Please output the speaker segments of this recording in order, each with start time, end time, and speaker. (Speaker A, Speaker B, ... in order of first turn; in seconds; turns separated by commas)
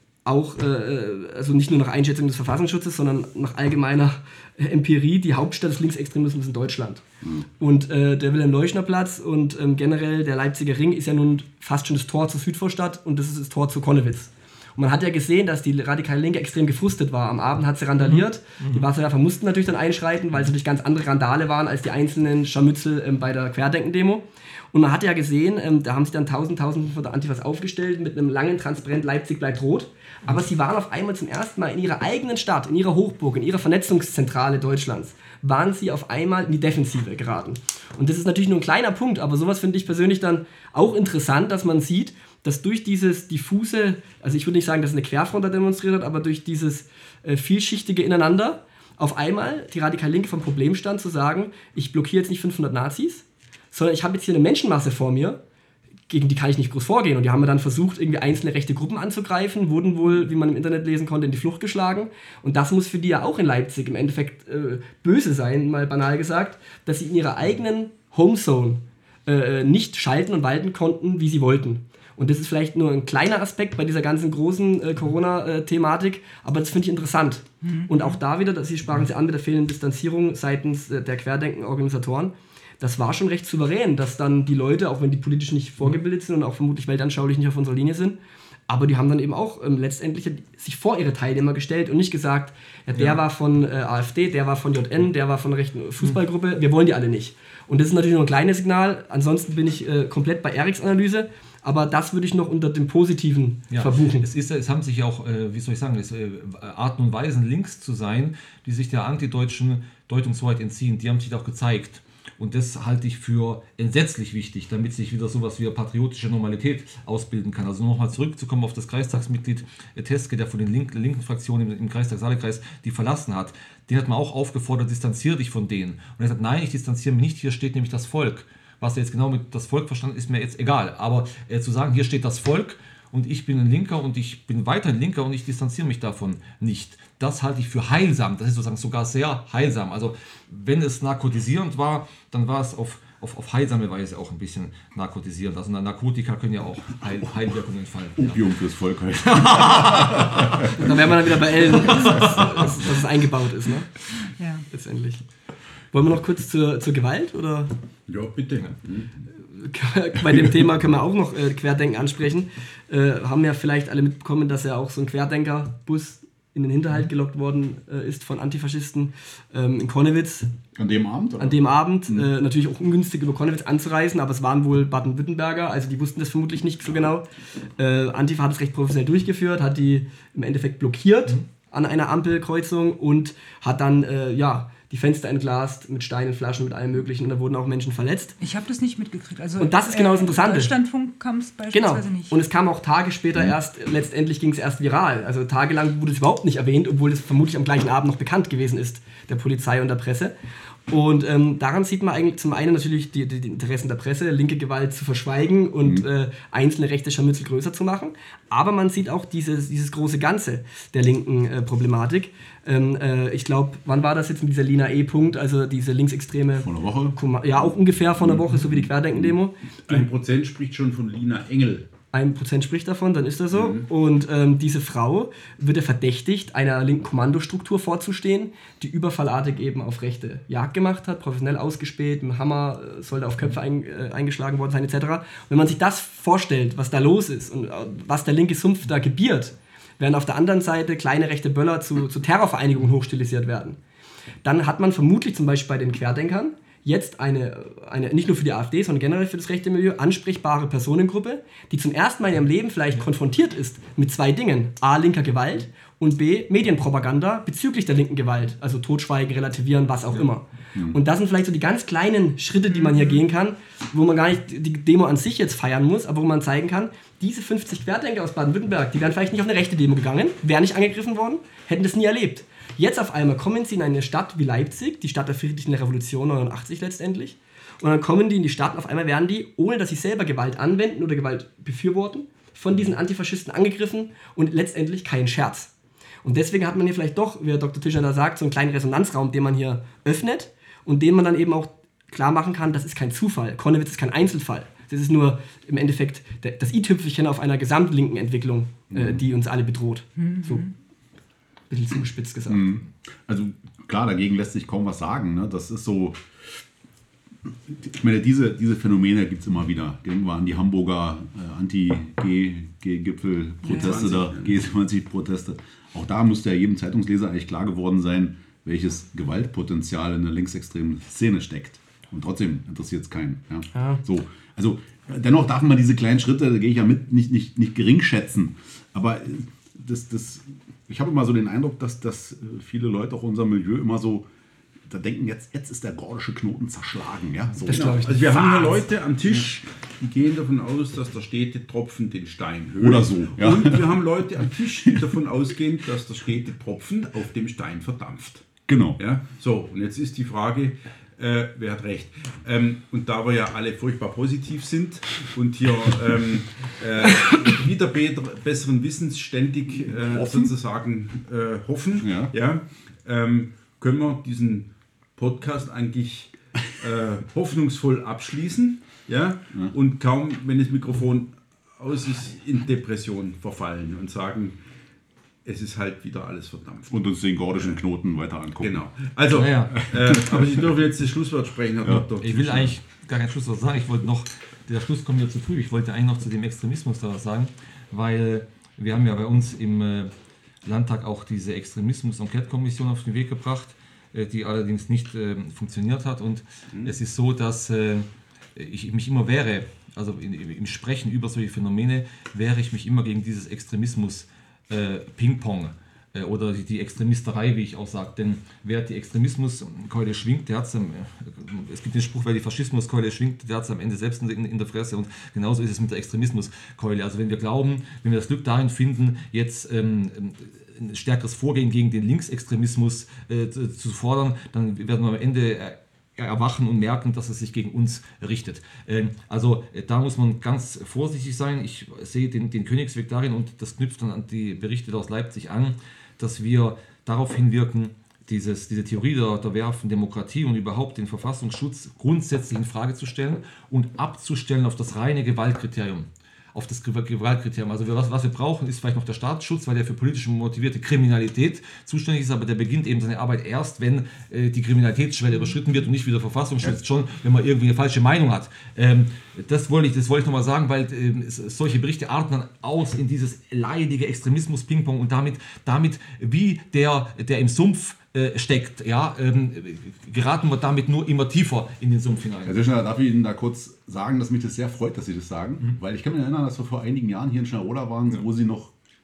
Speaker A: 0.2-7.0, Speaker A: 7.6-55.4, Speaker B: 18.0-18.8, Speaker A: 56.1-104.3, Speaker C: 77.6-78.2, Speaker B: 103.7-148.5, Speaker D: 147.0-147.5, Speaker D: 148.2-152.8, Speaker B: 149.2-150.8, Speaker A: 150.8-153.9, Speaker B: 151.9-152.7, Speaker C: 154.4-154.6, Speaker A: 154.7-155.2, Speaker A: 155.9-157.7, Speaker E: 158.1-159.1, Speaker A: 159.5-170.5, Speaker D: 170.8-172.3, Speaker A: 171.4-188.4, Speaker C: 188.4-192.4, Speaker A: 189.6-190.7, Speaker A: 191.7-200.3, Speaker A: 200.9-220.0, Speaker D: 216.6-217.6, Speaker D: 218.2-219.3, Speaker E: 219.9-221.9, Speaker A: 222.1-243.8, Speaker E: 223.5-223.9, Speaker A: 244.4-285.7, Speaker C: 262.7-263.2, Speaker A: 286.2-300.7, Speaker D: 298.9-299.2, Speaker C: 300.2-300.7, Speaker A: 301.7-302.7, Speaker D: 302.5-306.2, Speaker D: 307.7-334.3, Speaker E: 313.7-314.6, Speaker A: 323.7-324.0, Speaker D: 334.9-338.7, Speaker A: 337.6-338.8, Speaker E: 337.7-374.6, Speaker D: 342.8-344.0, Speaker D: 344.8-345.1, Speaker D: 348.6-349.0, Speaker D: 360.1-360.5, Speaker D: 362.0-362.3, Speaker E: 375.4-376.9, Speaker D: 376.9-378.8, Speaker E: 378.6-382.7, Speaker B: 379.3-379.9, Speaker D: 379.9-380.4, Speaker B: 382.2-390.1, Speaker B: 390.6-472.6, Speaker E: 396.7-396.9, Speaker D: 472.4-478.7